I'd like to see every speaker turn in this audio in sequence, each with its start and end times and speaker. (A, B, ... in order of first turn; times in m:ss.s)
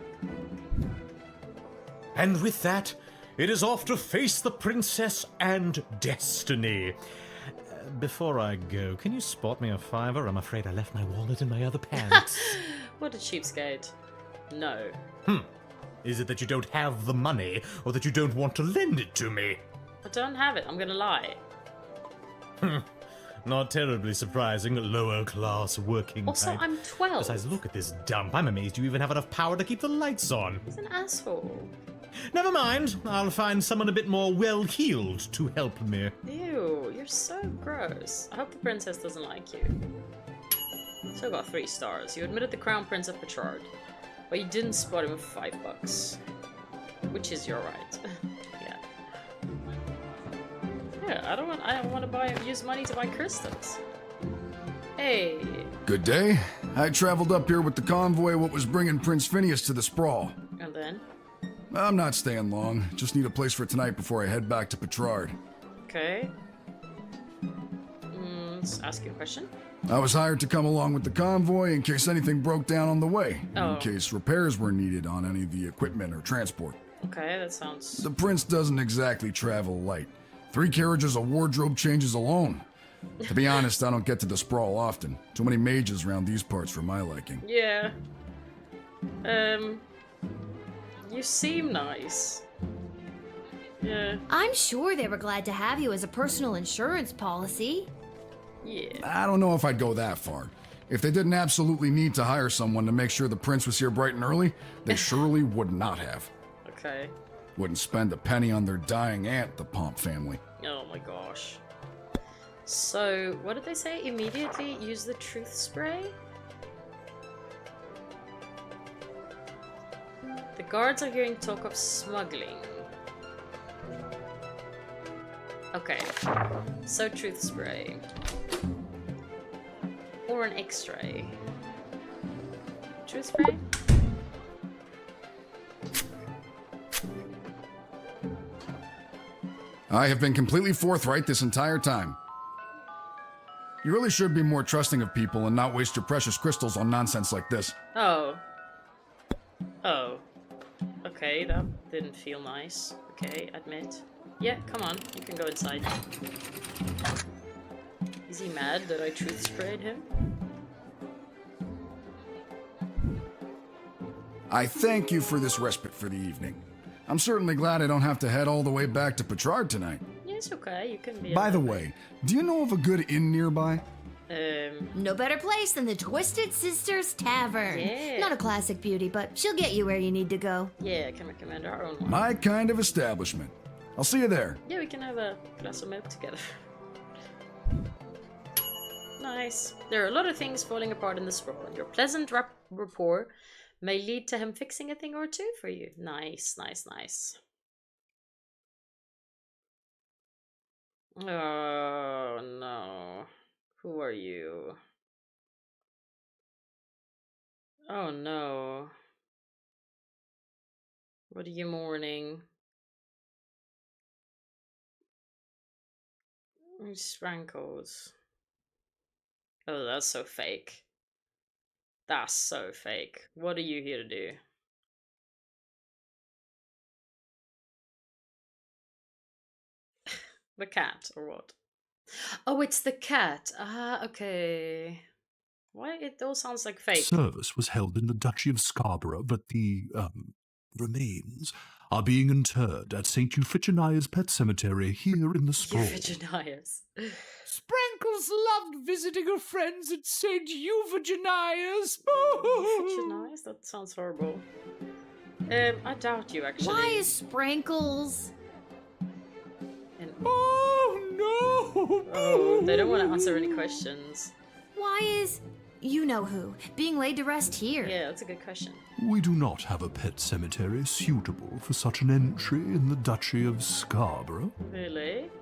0:02.2-0:07.0 A
0:07.7-0:12.6 A
0:12.1-0:13.9 B
0:14.5-0:15.0 B
0:16.0-0:19.6 A
0:20.0-0:21.4 B
0:23.4-0:26.7 A
0:26.3-0:27.5 B
0:27.2-0:30.6 A
0:30.7-0:31.7 B
0:32.3-0:36.1 A
0:36.2-0:39.8 B
0:41.2-0:43.7 B
0:44.3-0:46.2 B
0:47.1-0:48.0 B
0:51.0-0:53.8 B
0:55.0-0:55.7 B
0:55.9-1:00.4 C
1:00.6-1:01.0 B
1:01.7-1:05.4 C
1:05.9-1:06.3 B
1:08.1-1:09.5 B
1:09.9-1:16.8 C
1:13.6-1:14.0 B
1:17.0-1:18.1 B
1:18.0-1:22.6 C
1:23.3-1:27.4 C
1:27.4-1:28.0 B
1:29.2-1:29.8 B
1:31.0-1:32.4 B
1:33.8-1:34.2 B
1:34.3-1:37.9 D
1:38.6-1:39.0 B
1:39.0-1:46.3 C
1:46.6-1:47.1 B
1:47.6-1:50.4 C
1:50.6-1:51.6 B
1:52.6-1:56.2 B
2:00.6-2:02.9 B
2:05.7-2:06.1 B
2:06.8-2:08.0 B
2:10.3-2:11.4 B
2:13.0-2:13.6 B
2:19.9-2:22.2 C
2:23.8-2:27.8 C
2:27.9-2:28.4 B
2:29.8-2:30.2 B
2:31.0-2:35.9 B
2:38.3-2:40.1 B
2:44.5-2:50.0 C
2:50.2-2:51.9 B
2:51.3-2:53.8 C
2:54.3-2:54.9 B
2:55.0-3:00.7 D
2:57.7-2:58.4 B
3:00.8-3:02.3 B
3:02.0-3:04.6 C
3:04.7-3:06.4 B
3:09.2-3:17.4 B
3:21.2-3:24.8 B
3:27.9-3:28.9 B
3:31.3-3:32.4 B
3:36.8-3:38.1 B
3:39.7-3:40.9 B
3:42.1-3:44.4 B
3:50.6-3:51.6 B
3:52.5-3:55.0 B
3:55.7-3:57.2 B
3:56.9-4:06.1 E
4:05.6-4:07.2 B
4:07.5-4:13.3 F
4:12.1-4:14.4 B
4:15.5-4:17.1 B
4:16.6-4:18.3 D
4:20.0-4:20.2 B
4:20.2-4:23.8 F
4:22.1-4:24.3 B
4:24.8-4:28.0 D
4:27.8-4:28.8 B
4:29.0-4:34.5 E
4:34.6-4:35.3 B